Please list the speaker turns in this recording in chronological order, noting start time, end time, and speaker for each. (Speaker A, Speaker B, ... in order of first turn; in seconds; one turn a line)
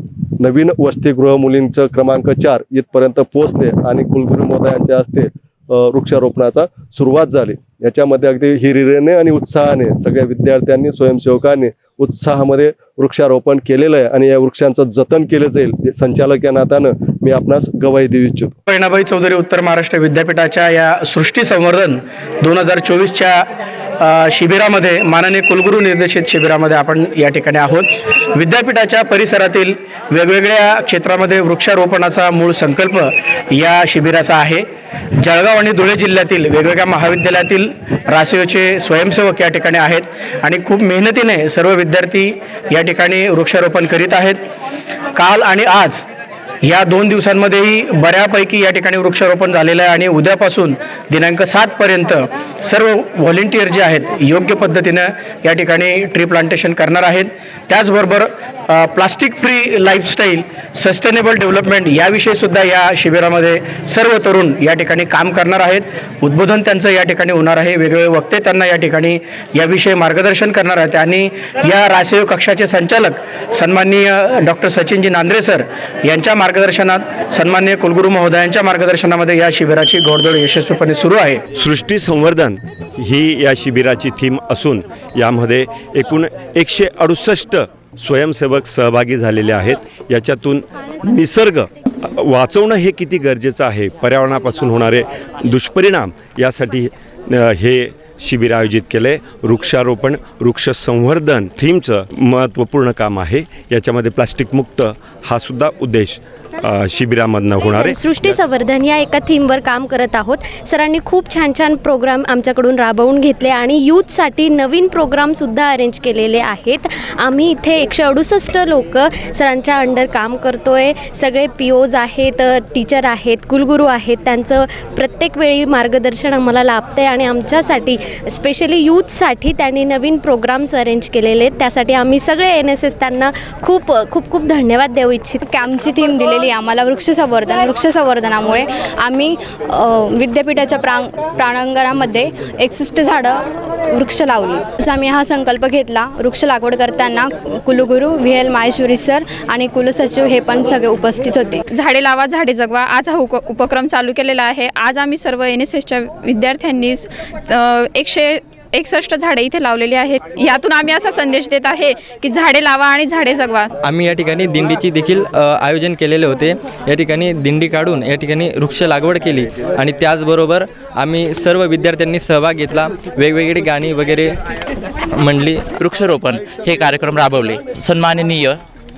Speaker A: 0.4-18.6
Speaker B: 18.7-23.4
Speaker B: 24.0-34.6
Speaker B: 35.2-44.4
Speaker B: 45.1-46.0
Speaker B: 46.6-81.4
Speaker C: 81.5-108.0
Speaker D: 107.6-135.4
Speaker E: 135.5-151.6
Speaker F: 151.7-163.7
Speaker G: 163.8-174.4
Speaker G: 175.1-175.7
Speaker H: 175.8-178.6